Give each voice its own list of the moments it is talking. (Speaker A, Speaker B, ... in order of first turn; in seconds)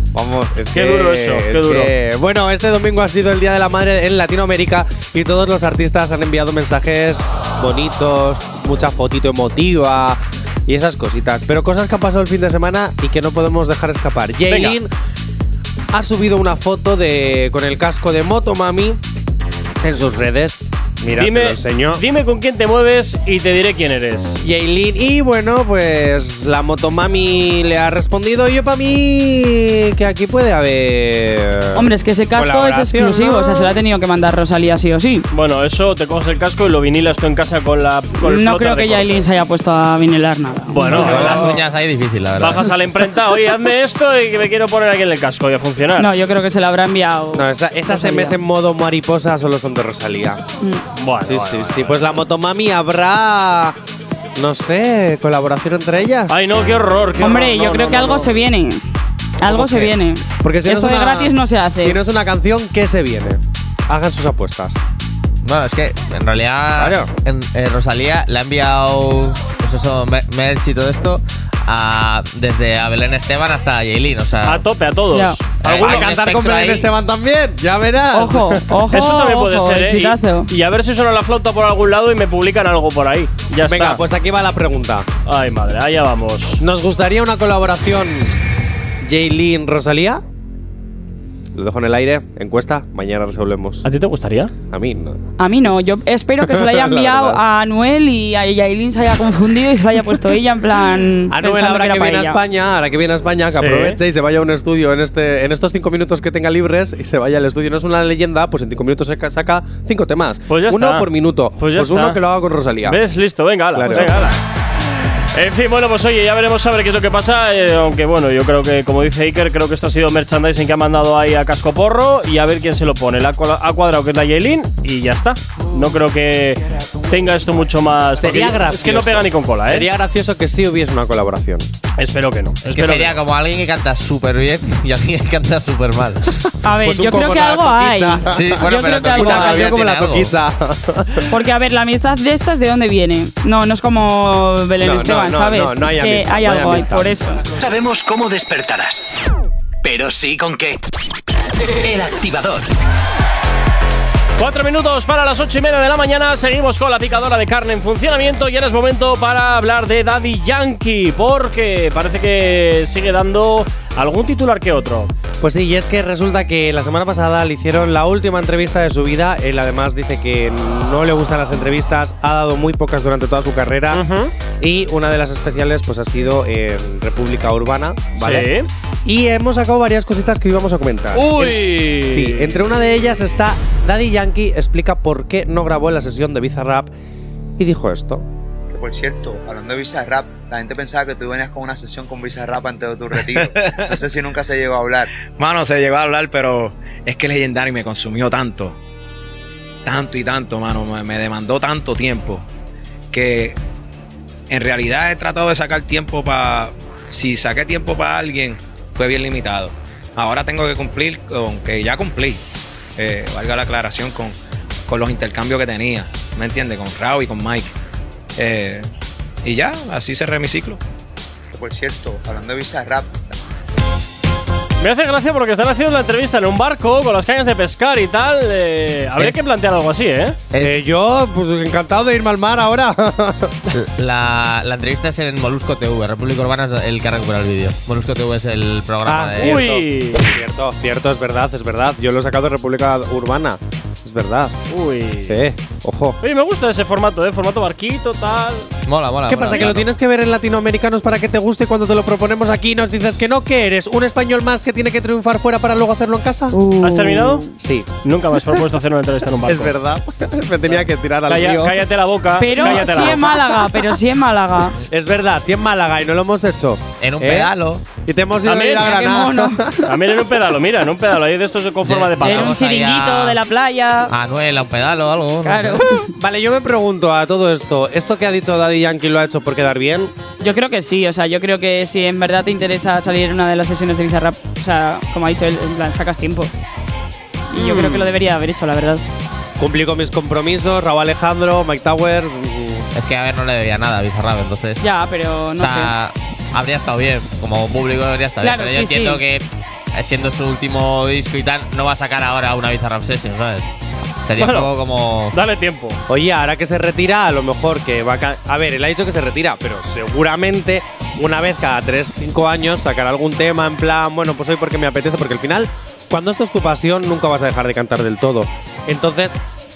Speaker A: 0.1-14.9, 15.9-19.0, 19.8-22.0, 24.4-33.8, 40.9-41.6, 47.3-50.4, 51.2-53.8, 54.4-56.4, 59.5-64.8, 66.8-67.1, 75.7-78.8, 83.7-85.1, 86.6-88.3, 89.0-90.2, 91.5-93.8, 94.7-95.2, 96.4-97.4, 101.3-113.0, 113.7-114.3, 128.2-131.7, 136.8-141.2, 144.8-147.1, 165.4-174.1, 174.6-178.5, 179.1-186.9, 187.6-188.3, 230.6-233.6, 239.1-244.6, 245.3-246.2, 249.3-256.6, 257.6-257.9, 259.5-261.8, 262.6-263.1, 264.9-269.9, 276.2-280.1, 289.6-292.9, 306.1-319.4
Speaker B: 0.7-1.9, 14.5-14.8, 21.2-24.4, 35.3-39.3, 40.7-41.5, 42.4-46.1, 51.0-52.0, 56.3-58.3, 74.4-76.1, 78.9-84.0, 85.3-86.6, 93.8-94.5, 103.5-104.0, 110.5-112.2, 112.8-114.4, 115.3-129.9, 132.0-133.2, 154.4-165.1, 173.9-174.3, 178.2-178.7, 181.1-182.6, 224.8-230.4, 239.4-240.2, 244.7-245.4, 246.2-248.7, 249.5-249.8, 256.8-257.4, 258.0-259.8, 260.7-263.6, 268.5-269.0, 269.8-272.6, 287.6-288.0, 304.4-304.7, 305.3-306.0
Speaker C: 31.7-35.3, 38.2-41.2, 46.0-48.4, 57.2-58.9, 59.4-62.0, 75.1-75.4, 78.1-80.5, 95.4-102.4, 136.6-139.8, 141.3-147.4, 256.5-257.4, 262.4-264.8, 268.7-269.6, 272.2-274.1, 275.4-276.1, 280.4-286.5, 287.5-289.0, 294.8-295.9, 298.4-299.2
Speaker D: 41.1-42.7, 65.4-74.6, 75.6-76.9, 132.7-136.3, 138.3-140.3, 230.5-230.8, 233.7-239.7, 248.9-249.8, 267.0-267.8, 271.9-273.4, 274.1-275.9, 292.9-294.9, 295.6-303.7, 304.3-305.4
Speaker E: 147.6-149.2, 149.8-150.8, 151.6-152.7
Speaker F: 188.7-195.1, 221.5-223.3
Speaker G: 193.3-194.0, 195.4-198.8, 199.8-202.5, 203.1-203.6, 204.5-212.4, 213.0-214.4, 214.9-217.7, 218.4-218.9, 219.4-220.8